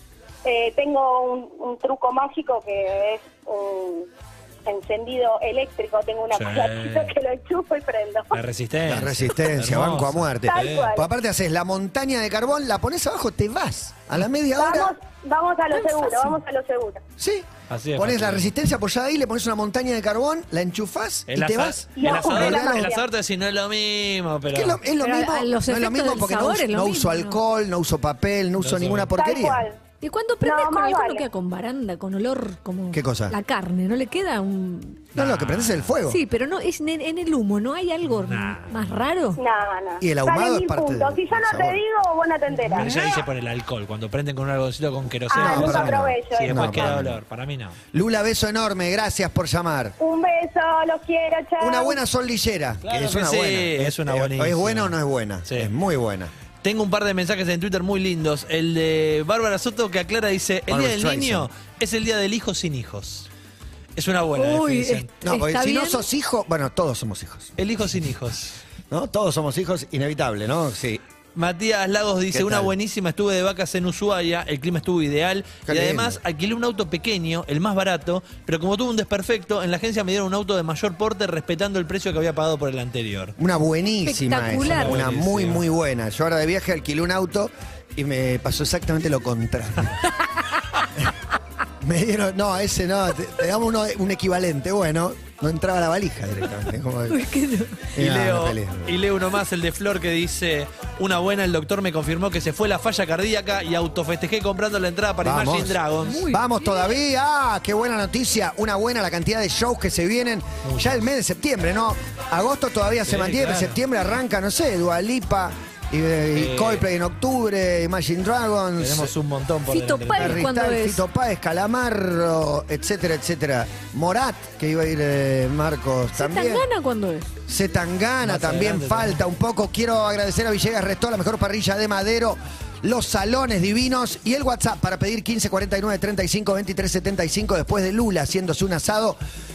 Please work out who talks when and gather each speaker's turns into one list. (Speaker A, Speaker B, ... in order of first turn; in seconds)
Speaker A: 0.4-4.1, 4.7-8.4, 10.4-11.1, 14.5-17.0, 21.9-23.0, 29.1-29.8, 30.4-31.2, 39.4-43.2, 45.3-46.9, 50.0-52.0
Speaker B: 6.3-7.2, 8.3-10.9, 17.7-18.5, 21.3-24.8, 28.6-29.1, 35.1-36.0, 38.2-38.9, 42.7-47.8, 52.8-55.7, 56.6-63.3, 64.0-65.1, 67.6-68.6, 71.3-83.3, 84.6-85.6, 98.0-106.2, 110.6-111.0, 113.0-113.8, 116.3-116.8, 118.8-120.5, 128.2-129.2
Speaker C: 8.8-14.9, 17.2-22.9, 24.5-29.6, 32.9-33.3, 35.1-36.2, 40.0-41.8, 45.4-47.2, 47.9-50.0, 51.6-56.3, 60.7-61.5, 65.2-67.5, 68.9-71.0, 72.3-72.7, 75.7-76.2, 83.4-90.0, 91.8-97.3, 97.9-99.0, 105.2-119.1, 120.1-126.7, 127.5-139.2
Speaker D: 25.0-27.4, 30.0-35.1, 36.1-39.4, 64.3-66.0, 84.0-85.0, 97.1-97.9, 106.0-107.0, 119.7-121.0, 126.1-127.3